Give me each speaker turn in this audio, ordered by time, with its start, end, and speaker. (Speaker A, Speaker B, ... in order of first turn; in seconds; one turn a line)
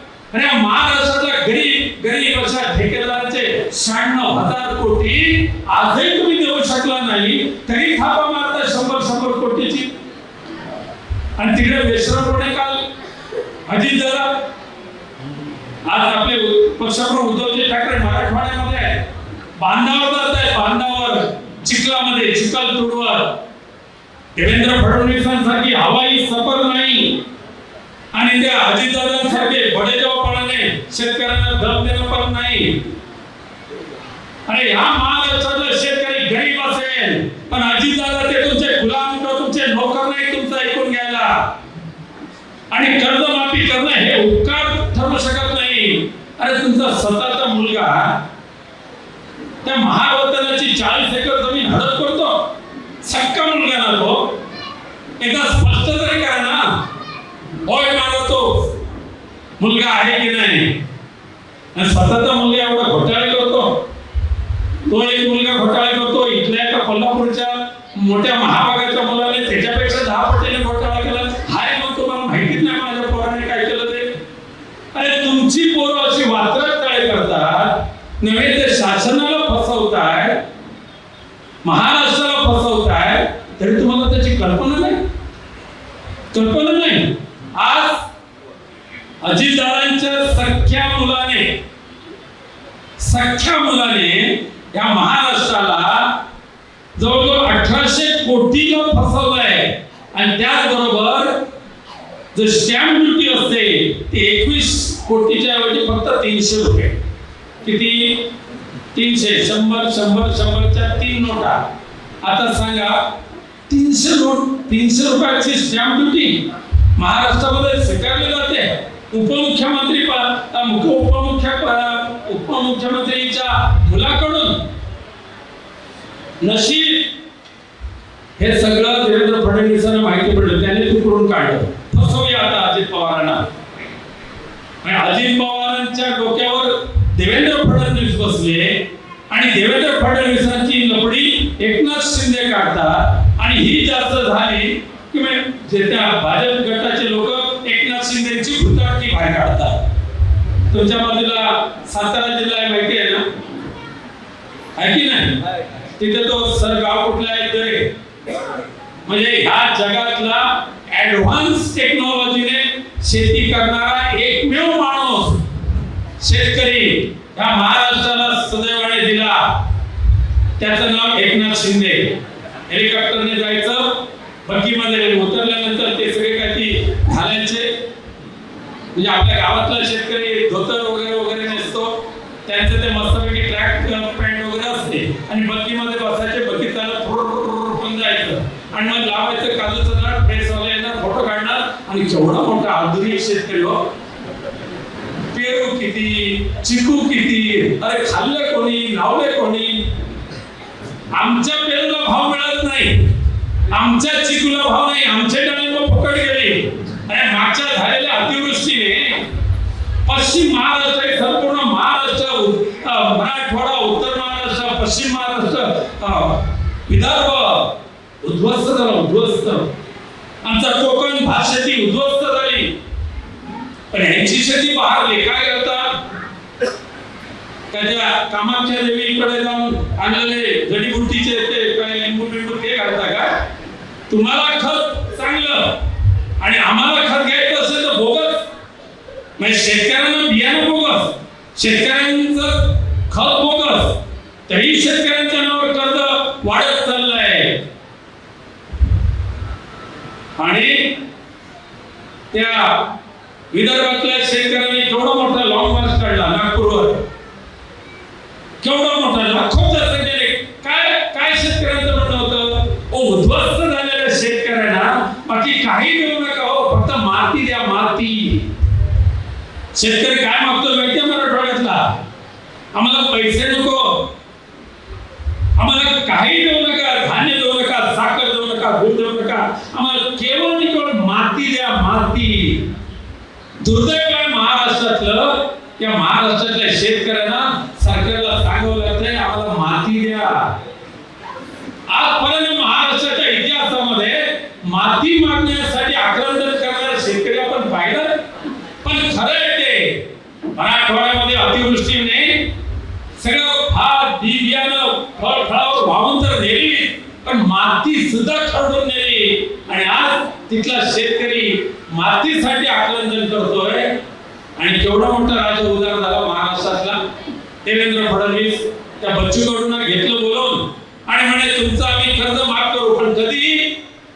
Speaker A: 0.3-9.9
Speaker A: 11.4-12.8
Speaker A: 13.7-14.4
Speaker A: 15.9-19.0
Speaker A: 19.6-23.3
Speaker A: 24.4-27.2
Speaker A: 28.1-32.8
Speaker A: 34.5-41.4
Speaker A: 42.7-48.1
Speaker A: 49.6-52.4
Speaker A: 53.0-54.2
Speaker A: 55.2-56.7
Speaker A: 57.6-58.7
Speaker A: 59.6-60.7
Speaker A: 61.8-63.8
Speaker A: 64.9-74.1
Speaker A: 74.9-80.3
Speaker A: 81.6-85.0
Speaker A: 86.3-88.0
Speaker A: 89.2-91.5
Speaker A: 93.0-96.1
Speaker A: 97.0-101.3
Speaker A: 102.3-106.9
Speaker A: 107.6-108.2
Speaker A: 108.9-111.6
Speaker A: 112.2-113.0
Speaker A: 113.7-116.4
Speaker A: 117.0-124.6
Speaker A: 126.4-127.1
Speaker A: 128.4-133.4
Speaker A: 134.8-138.8
Speaker A: 139.3-149.8
Speaker A: 150.7-153.2
Speaker A: 154.8-155.4
Speaker A: 156.0-157.9
Speaker A: 159.1-165.4
Speaker A: 166.2-169.5
Speaker A: 170.6-172.1
Speaker A: 172.7-177.7
Speaker A: 178.9-181.9
Speaker A: 182.4-193.8
Speaker A: 195.3-199.8
Speaker A: 201.2-203.0
Speaker A: 203.7-209.2
Speaker A: 210.1-217.7
Speaker A: 218.2-219.7
Speaker A: 220.4-222.7
Speaker A: 223.9-225.9
Speaker A: 227.7-233.3
Speaker A: 234.1-235.8
Speaker A: 236.4-238.4
Speaker A: 239.4-247.6
Speaker A: 250.4-250.8
Speaker A: 252.3-252.8
Speaker A: 253.5-257.0
Speaker A: 258.6-268.5
Speaker A: 269.7-271.8
Speaker A: 272.7-274.0
Speaker A: 275.6-282.6
Speaker A: 283.6-290.4
Speaker A: 291.9-298.1
Speaker A: 298.8-299.9
Speaker A: 300.6-302.4
Speaker A: 303.2-313.9
Speaker A: 314.6-317.0
Speaker A: 317.6-323.7